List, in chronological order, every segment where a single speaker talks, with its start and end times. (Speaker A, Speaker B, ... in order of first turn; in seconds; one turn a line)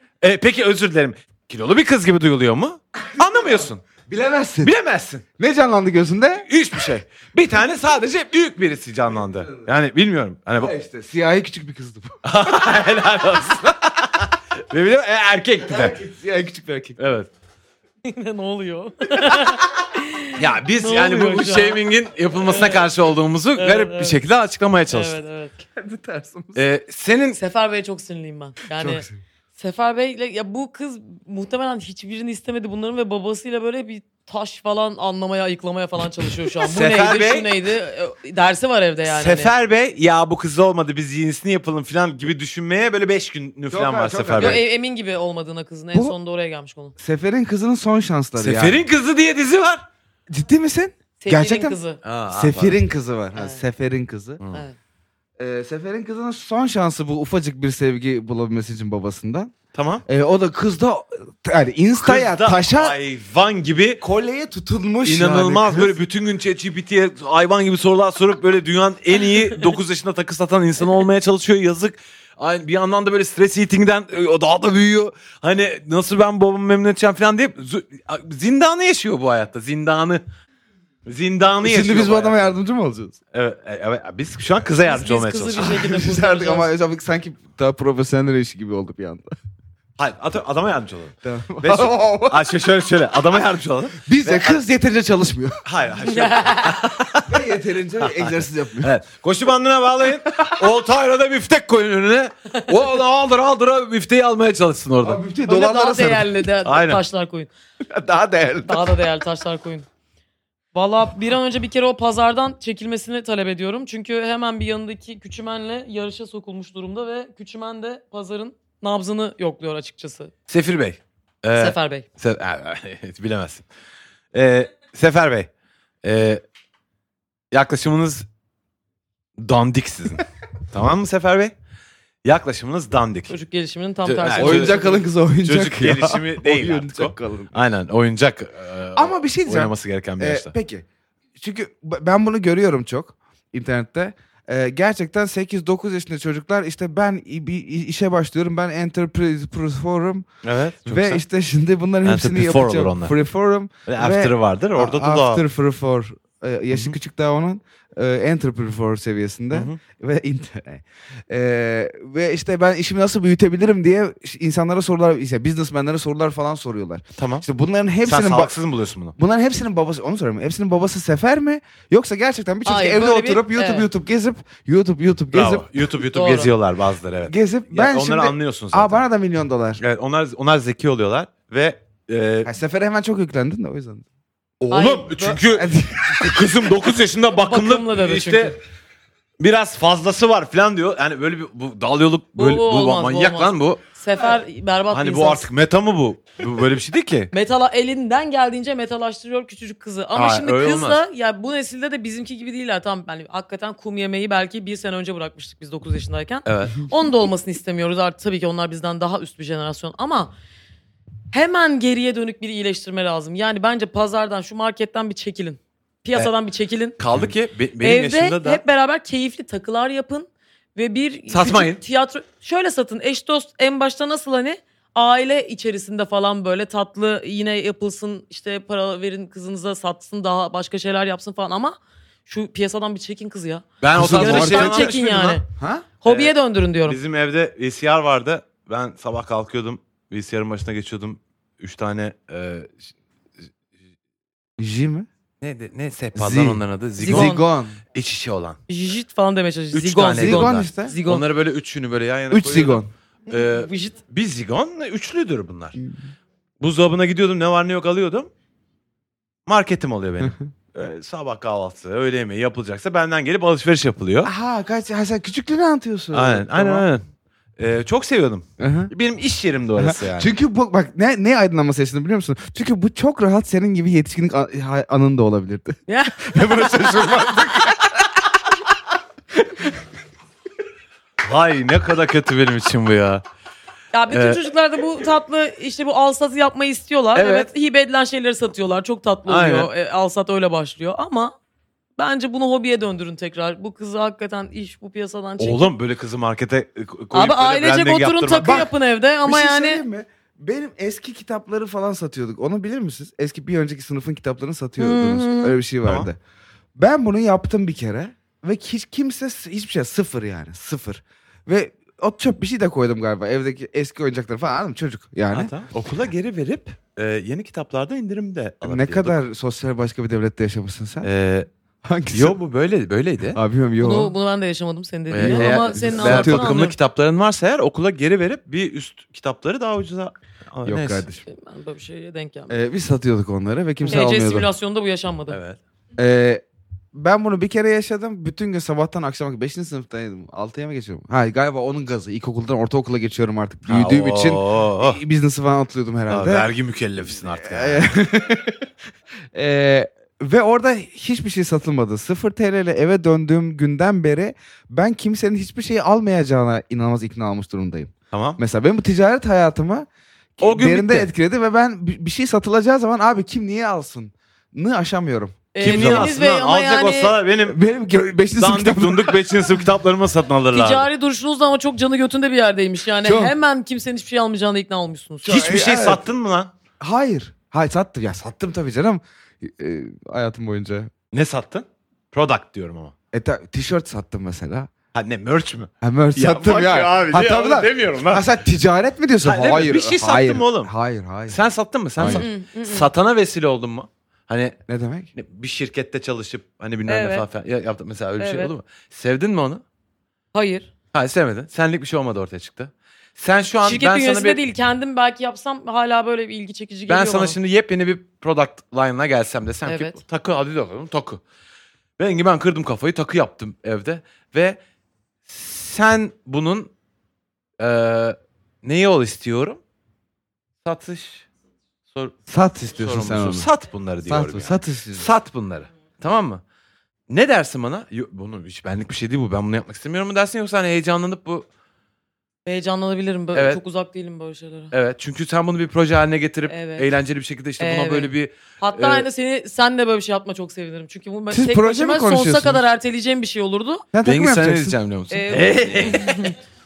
Speaker A: 0.2-3.8
Speaker B: 4.0-4.7
Speaker A: 4.6-5.2
Speaker B: 5.4-6.5
Speaker A: 6.5-10.7
Speaker B: 10.6-12.2
Speaker A: 12.2-16.0
Speaker B: 15.7-17.0
Speaker A: 17.0-17.3
Speaker C: 18.0-21.8
Speaker A: 20.4-25.2
Speaker C: 22.4-22.9
Speaker C: 23.6-24.2
Speaker C: 24.9-25.5
Speaker B: 25.6-26.6
Speaker A: 26.5-27.4
Speaker C: 27.4-29.0
Speaker B: 28.7-29.2
Speaker C: 29.6-39.5
Speaker A: 36.6-37.5
Speaker A: 39.1-44.6
Speaker B: 43.7-44.6
Speaker C: 44.4-46.9
Speaker B: 47.0-48.8
Speaker A: 48.4-49.8
Speaker B: 50.3-51.8
Speaker C: 51.2-52.0
Speaker A: 52.0-52.8
Speaker B: 52.3-54.4
Speaker C: 53.3-53.6
Speaker C: 54.5-54.8
Speaker B: 55.4-59.5
Speaker A: 59.7-60.0
Speaker B: 60.1-63.0
Speaker A: 62.0-64.0
Speaker B: 64.0-65.9
Speaker A: 65.0-80.2
Speaker A: 81.0-82.5
Speaker B: 81.6-83.2
Speaker A: 83.3-85.8
Speaker C: 84.8-86.7
Speaker B: 85.6-89.3
Speaker A: 90.0-94.6
Speaker B: 91.2-92.4
Speaker B: 94.0-95.6
Speaker A: 95.6-97.4
Speaker C: 96.0-96.8
Speaker B: 97.2-98.9
Speaker A: 98.0-105.2
Speaker B: 100.3-100.6
Speaker B: 105.0-106.4
Speaker C: 105.5-107.5
Speaker A: 106.6-107.0
Speaker B: 107.8-109.0
Speaker C: 108.7-109.9
Speaker C: 110.7-120.3
Speaker A: 120.5-123.6
Speaker C: 121.5-122.0
Speaker A: 124.3-125.5
Speaker A: 126.0-126.4
Speaker A: 127.5-128.2
Speaker A: 129.4-131.5
Speaker A: 132.2-133.3
Speaker C: 133.3-135.0
Speaker A: 134.0-134.8
Speaker B: 134.3-137.5
Speaker A: 135.4-140.5
Speaker B: 138.9-140.8
Speaker B: 141.3-150.3
Speaker A: 150.4-151.2
Speaker B: 150.8-168.5
Speaker A: 152.0-153.1
Speaker A: 153.9-155.4
Speaker A: 159.5-159.8
Speaker A: 167.2-167.4
Speaker A: 168.0-169.1
Speaker B: 169.2-175.7
Speaker C: 172.6-173.9
Speaker A: 175.3-179.0
Speaker C: 176.1-176.5
Speaker B: 177.3-179.8
Speaker A: 179.8-182.5
Speaker B: 182.4-184.0
Speaker A: 184.6-188.6
Speaker C: 184.7-185.4
Speaker B: 185.4-186.7
Speaker C: 187.4-188.6
Speaker A: 189.4-193.8
Speaker C: 192.3-195.5
Speaker A: 194.9-197.3
Speaker C: 197.3-210.3
Speaker A: 200.1-201.0
Speaker A: 206.4-206.8
Speaker C: 211.3-217.0
Speaker A: 217.0-218.6
Speaker C: 217.8-235.4
Speaker A: 221.3-221.8
Speaker A: 233.8-235.4
Speaker B: 233.9-234.9
Speaker B: 235.6-235.9
Speaker C: 236.0-237.0
Speaker A: 236.0-236.3
Speaker A: 236.8-242.8
Speaker B: 244.6-245.1
Speaker A: 245.4-247.4
Speaker B: 246.1-247.8
Speaker C: 247.0-247.4
Speaker A: 247.9-248.6
Speaker C: 248.7-251.2
Speaker A: 249.7-255.8
Speaker B: 250.1-251.0
Speaker B: 252.3-252.9
Speaker C: 253.3-254.0
Speaker B: 255.8-256.1
Speaker A: 256.6-258.3
Speaker A: 259.4-264.3
Speaker B: 264.2-266.9
Speaker A: 266.1-267.0
Speaker A: 267.6-270.3
Speaker B: 268.6-268.9
Speaker B: 269.8-278.0
Speaker C: 275.9-277.7
Speaker B: 279.4-279.7
Speaker A: 281.2-283.2
Speaker C: 283.9-291.3
Speaker A: 284.1-284.4
Speaker A: 287.1-287.5
Speaker A: 289.3-289.7
Speaker C: 292.0-295.7
Speaker A: 295.4-298.6
Speaker C: 297.1-299.8
Speaker B: 298.4-298.7
Speaker B: 299.2-306.2
Speaker C: 304.8-305.6
Speaker B: 306.8-315.5
Speaker A: 315.3-319.1
Speaker B: 318.6-321.1
Speaker A: 321.0-321.5
Speaker B: 321.8-322.4
Speaker A: 322.1-323.4
Speaker B: 323.3-324.1
Speaker C: 323.8-326.7
Speaker A: 325.1-331.1
Speaker B: 325.2-326.6
Speaker B: 330.6-331.2
Speaker C: 331.3-332.6
Speaker B: 332.5-334.5
Speaker C: 333.9-335.4
Speaker A: 335.3-335.6
Speaker B: 336.0-336.4
Speaker B: 336.9-346.5
Speaker A: 343.7-345.0
Speaker A: 346.1-347.9
Speaker B: 347.4-348.7
Speaker B: 349.3-366.1
Speaker A: 358.1-358.4
Speaker A: 360.4-361.1
Speaker C: 365.5-367.1
Speaker A: 365.6-367.6
Speaker B: 367.4-369.6
Speaker A: 368.4-370.9
Speaker C: 370.5-375.4
Speaker B: 373.0-373.3
Speaker B: 375.2-376.0
Speaker A: 375.2-376.5
Speaker B: 376.8-380.9
Speaker A: 381.1-382.9
Speaker B: 383.1-384.7
Speaker A: 384.9-388.3
Speaker B: 385.8-391.4
Speaker A: 389.2-390.7
Speaker A: 391.3-394.6
Speaker B: 392.0-392.2
Speaker C: 392.0-392.9
Speaker B: 394.7-395.1
Speaker A: 395.1-399.6
Speaker C: 396.9-397.2
Speaker C: 398.2-398.5
Speaker C: 400.3-400.7
Speaker A: 400.9-404.4
Speaker C: 403.6-407.4
Speaker A: 406.9-411.2
Speaker C: 409.6-410.0
Speaker A: 412.0-414.6
Speaker A: 415.3-416.7
Speaker A: 417.6-419.6
Speaker A: 420.6-421.2
Speaker B: 422.3-423.5
Speaker A: 422.7-426.4
Speaker B: 424.1-425.1
Speaker A: 427.1-431.5
Speaker C: 432.4-434.7
Speaker A: 433.3-433.6
Speaker A: 434.7-439.1
Speaker C: 436.5-436.9
Speaker C: 437.6-443.9
Speaker B: 441.3-442.6
Speaker B: 443.9-444.8
Speaker A: 444.0-446.3
Speaker C: 445.1-446.4